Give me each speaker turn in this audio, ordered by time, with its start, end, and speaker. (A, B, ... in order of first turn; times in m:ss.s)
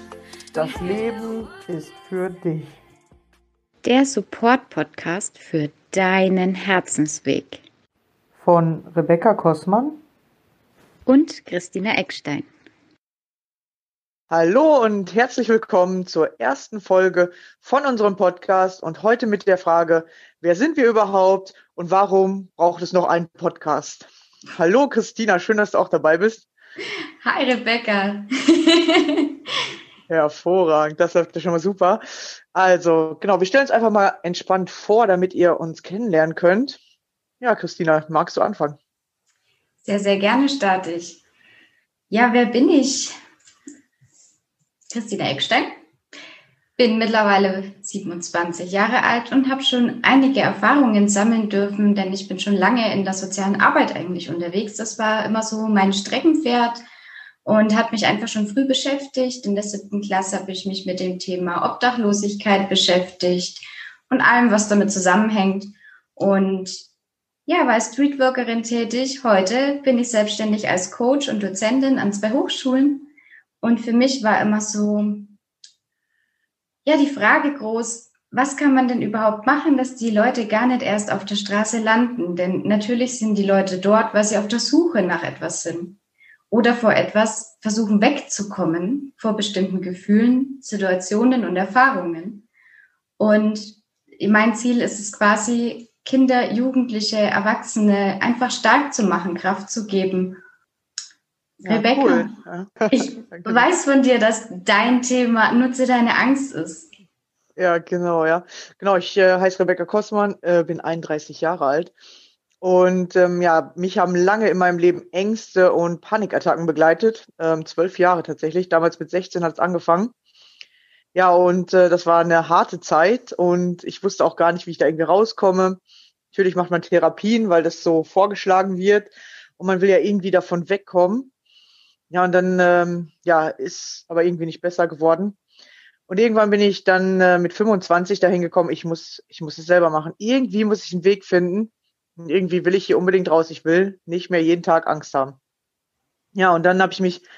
0:00.5-0:02.8 A
0:03.8-0:07.6 B
0:08.4-0:10.0 A
0:11.1-0:12.5 B
0:14.3-0:26.5 A
0:27.2-0:29.3 B
0:30.1-0:36.8 A
0:37.4-0:38.8 A
0:39.8-0:41.2 B
0:42.1-0:43.1 B
0:44.9-0:45.8 B
0:46.8-0:56.8 B
0:57.4-1:06.8 B
1:07.5-1:15.4 B
1:16.8-1:26.0 B
1:26.5-1:32.5 B
1:33.2-1:40.4 B
1:41.6-1:42.3 B
1:41.6-1:43.7 A
1:42.9-1:46.9 B
1:47.6-1:51.9 A
1:52.6-2:00.1 A
2:01.1-2:05.8 A
2:06.3-2:11.3 A
2:12.1-2:15.4 A
2:16.1-2:25.4 A
2:26.3-2:27.2 A